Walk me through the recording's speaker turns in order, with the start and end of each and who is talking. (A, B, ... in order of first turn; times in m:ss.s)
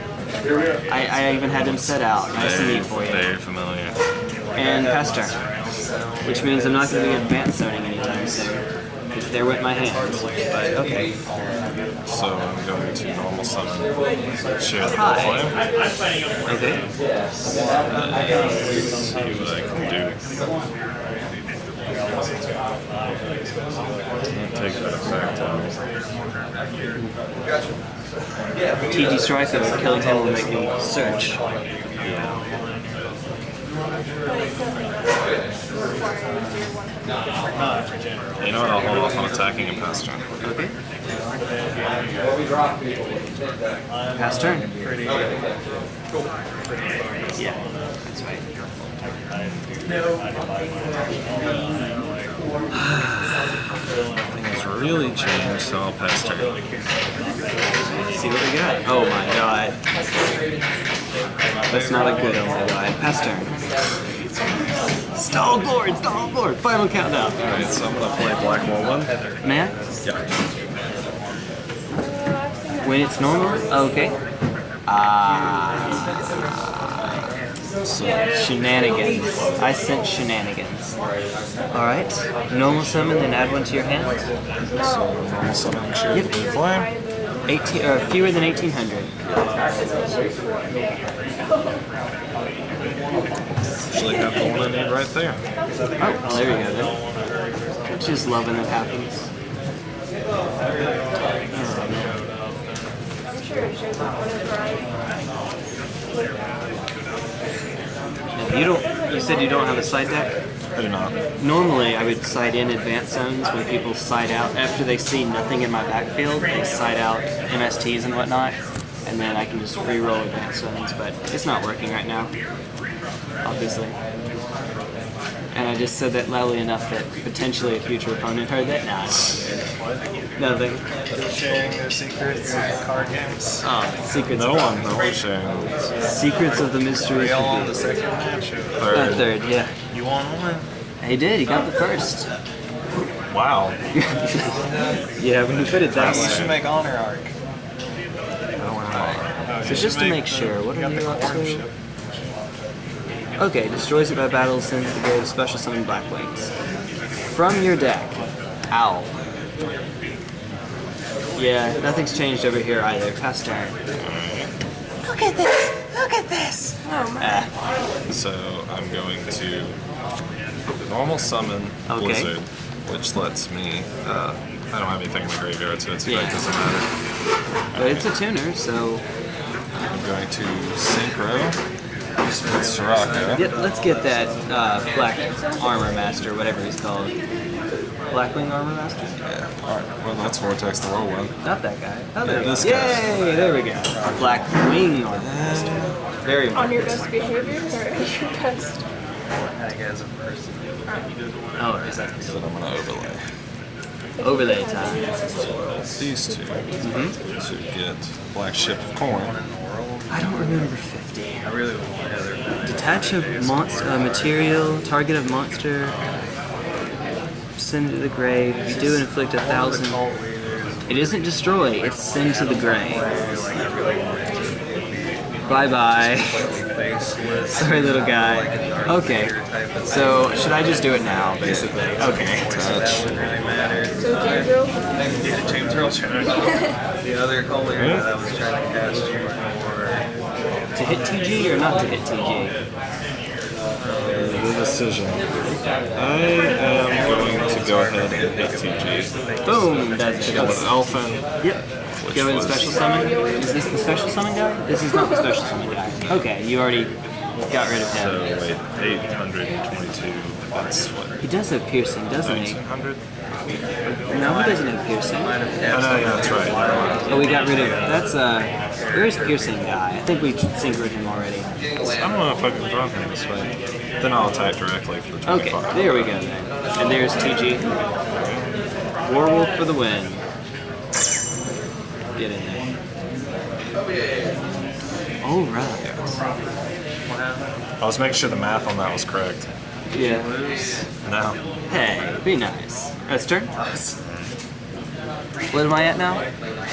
0:00.9-0:03.3 A
0:01.5-0:04.0 B
0:04.5-0:05.4 A
0:04.6-0:07.3 C
0:06.2-0:11.1 A
0:09.8-0:11.2 C
0:12.1-0:13.9 B
0:14.6-0:15.6 B
0:14.8-0:15.5 A
0:16.4-0:16.8 A
0:17.9-0:20.2 B
0:18.0-0:19.6 C
0:24.3-0:25.8 B
0:25.4-0:25.8 C
0:28.9-0:31.4 A
0:29.3-0:32.4 C
0:32.0-0:32.4 B
0:34.3-0:35.0 D
0:35.8-0:37.6 D
0:38.4-0:40.3 B
0:38.5-0:39.0 C
0:40.4-0:40.7 A
0:44.2-0:44.7 A
0:44.7-0:45.3 C
0:46.7-0:47.5 C
0:47.4-0:48.4 A
0:49.4-0:49.6 B
0:52.7-0:53.6 B
0:54.2-0:56.5 B
0:58.1-0:59.8 A
1:01.6-1:02.5 C
1:01.7-1:03.5 A
1:05.1-1:07.4 A
1:07.4-1:09.1 B
1:09.0-1:09.8 C
1:09.4-1:09.7 A
1:12.0-1:14.1 D
1:12.8-1:14.2 A
1:14.9-1:17.1 A
1:16.9-1:17.3 B
1:17.8-1:19.6 B
1:18.3-1:20.9 A
1:21.7-1:24.3 A
1:24.7-1:26.9 B
1:24.7-1:28.5 D
1:27.4-1:29.1 A
1:29.6-1:31.0 D
1:33.9-1:35.4 B
1:34.4-1:34.6 D
1:36.0-1:37.0 A
1:36.0-1:38.4 C
1:37.9-1:39.3 A
1:40.5-1:42.3 C
1:41.5-1:42.2 B
1:43.3-1:45.0 D
1:48.4-1:50.3 A
1:48.5-1:51.6 D
1:50.7-1:51.1 B
1:51.4-2:02.3 A
2:03.4-2:04.0 A
2:05.5-2:09.4 A
2:09.8-2:10.1 C
2:10.4-2:10.8 A
2:11.1-2:13.6 C
2:13.6-2:15.0 A
2:14.3-2:15.7 B
2:16.0-2:17.8 A
2:16.1-2:19.0 C
2:18.8-2:19.3 B
2:18.9-2:19.7 A
2:19.9-2:20.7 C
2:21.0-2:22.3 A
2:23.3-2:23.8 B
2:23.9-2:24.6 A
2:25.2-2:26.5 A
2:25.4-2:26.6 B
2:25.9-2:27.3 C
2:28.6-2:29.9 B
2:29.1-2:31.7 C
2:29.6-2:31.7 A
2:33.4-2:36.5 A
2:37.3-2:39.1 A
2:41.4-2:43.8 A
2:44.0-2:44.5 B
2:45.0-2:47.5 A
2:46.8-2:47.5 D
2:48.1-2:49.8 B
2:50.8-2:56.9 B
2:51.9-2:52.3 A
2:56.0-2:56.4 A
2:57.7-2:58.1 B
2:57.7-2:59.0 A
2:59.9-3:01.6 B
3:02.2-3:04.8 C
3:02.3-3:03.4 B
3:03.3-3:07.1 A
3:05.2-3:06.0 D
3:08.1-3:09.2 A
3:09.2-3:11.4 B
3:11.4-3:17.2 A
3:12.2-3:13.3 B
3:12.9-3:13.3 C
3:13.9-3:14.4 C
3:13.9-3:14.4 B
3:15.1-3:16.0 B
3:16.5-3:18.8 D
3:19.5-3:20.8 C
3:21.6-3:22.1 A
3:21.6-3:22.7 C
3:22.2-3:23.2 B
3:24.2-3:27.6 D
3:24.2-3:25.1 A
3:26.0-3:29.4 B
3:26.8-3:27.1 A
3:29.0-3:30.7 C
3:30.1-3:31.4 A
3:31.4-3:34.8 C
3:32.6-3:36.0 A
3:37.6-3:40.0 A
3:38.6-3:41.1 C
3:40.9-3:43.1 A
3:41.8-3:44.6 C
3:45.4-4:00.0 C
3:45.5-3:46.5 A
3:47.5-3:52.6 A
3:51.4-3:53.1 B
3:54.0-3:55.4 D
3:56.0-3:56.8 D
3:57.7-3:58.1 B
4:00.7-4:02.6 A
4:04.1-4:05.3 B
4:05.9-4:09.1 B
4:06.6-4:10.9 C
4:09.4-4:18.2 A
4:10.2-4:12.9 B
4:12.4-4:15.3 D
4:15.8-4:16.3 B
4:17.9-4:21.2 B
4:21.2-4:22.6 A
4:22.2-4:23.0 B
4:23.8-4:25.4 A
4:24.1-4:28.1 C
4:25.7-4:27.1 B
4:27.1-4:31.5 A
4:31.8-4:36.2 B
4:35.2-4:37.6 A
4:38.1-4:38.4 B
4:39.0-4:40.2 A
4:42.2-4:42.6 A
4:45.2-4:46.2 A
4:45.8-4:46.1 B
4:47.0-4:47.5 C
4:47.8-4:49.5 B
4:49.9-4:50.3 A
4:50.0-4:50.9 C
4:51.0-4:51.4 B
4:51.7-4:53.5 A
4:55.5-4:56.2 A